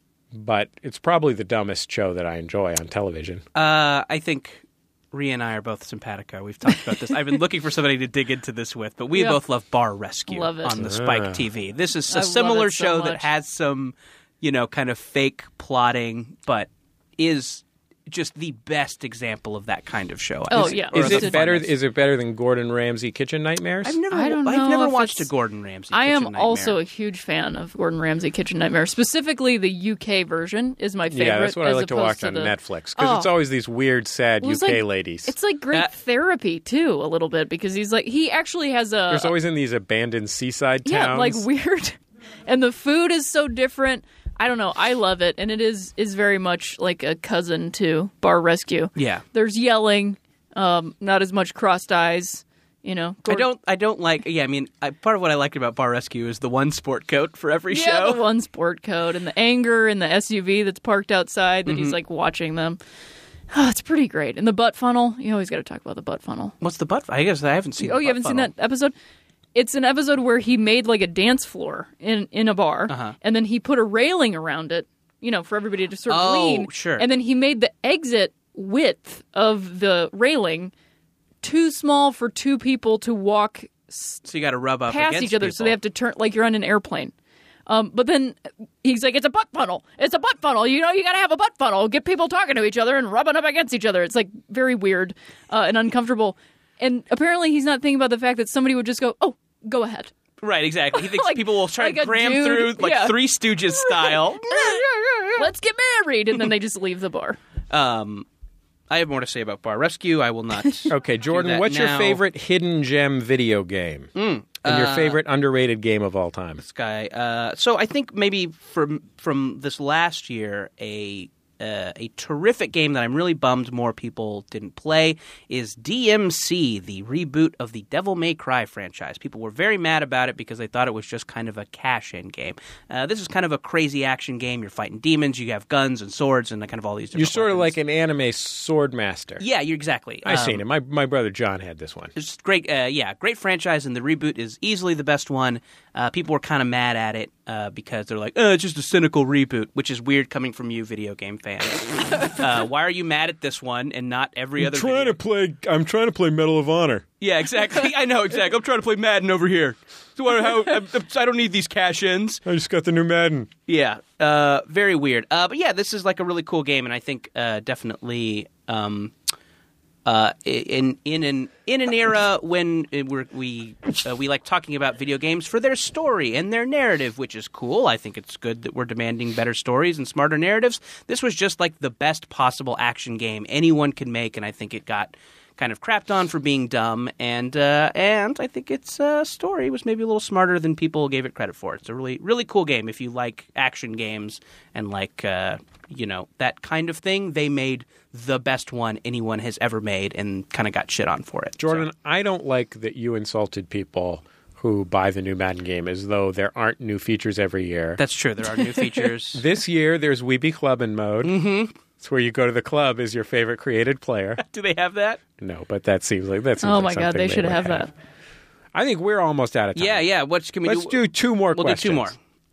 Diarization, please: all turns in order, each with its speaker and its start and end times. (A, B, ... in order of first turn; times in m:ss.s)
0:00.3-0:03.4 A
0:03.5-0:21.7 B
0:10.3-0:10.8 C
0:10.8-0:11.4 A
0:12.1-0:13.2 C
0:20.5-0:21.4 C
0:20.6-0:24.0 A
0:23.8-0:26.8 B
0:24.1-0:25.3 C
0:25.9-0:33.3 C
0:31.1-0:35.3 A
0:34.4-0:39.3 C
0:39.1-0:41.4 A
0:40.8-0:53.5 C
0:49.0-0:49.2 B
0:53.2-0:58.2 B
0:57.7-1:02.8 C
1:01.6-1:02.0 B
1:03.5-1:06.5 C
1:06.6-1:08.5 B
1:07.8-1:08.9 C
1:09.5-1:20.7 C
1:12.9-1:13.2 B
1:16.1-1:17.0 B
1:21.4-1:24.2 C
1:24.2-1:25.8 B
1:24.9-1:27.1 C
1:27.7-1:40.1 C
1:40.4-1:45.4 B
1:40.9-1:43.1 C
1:43.7-1:47.4 C
1:47.7-1:48.2 B
1:48.9-1:52.2 B
1:50.9-1:54.1 A
1:54.1-1:55.2 B
1:54.6-1:56.6 A
1:56.6-2:17.7 B
2:17.1-2:19.4 A
2:19.4-2:20.6 B
2:20.2-2:22.1 A
2:22.2-2:35.2 B
2:34.6-2:37.0 A
2:37.2-2:42.4 B
2:42.4-2:43.5 A
2:43.7-2:49.1 B
2:50.0-3:21.9 B
3:21.6-3:28.0 A
3:28.0-3:29.4 B
3:29.3-3:31.3 A
3:31.2-3:31.7 B
3:32.0-3:34.4 A
3:34.4-3:35.2 B
3:35.4-3:37.9 A
3:36.6-3:37.9 C
3:38.7-3:40.0 A
3:39.8-3:41.0 B
3:40.6-3:42.1 A
3:41.5-3:42.2 B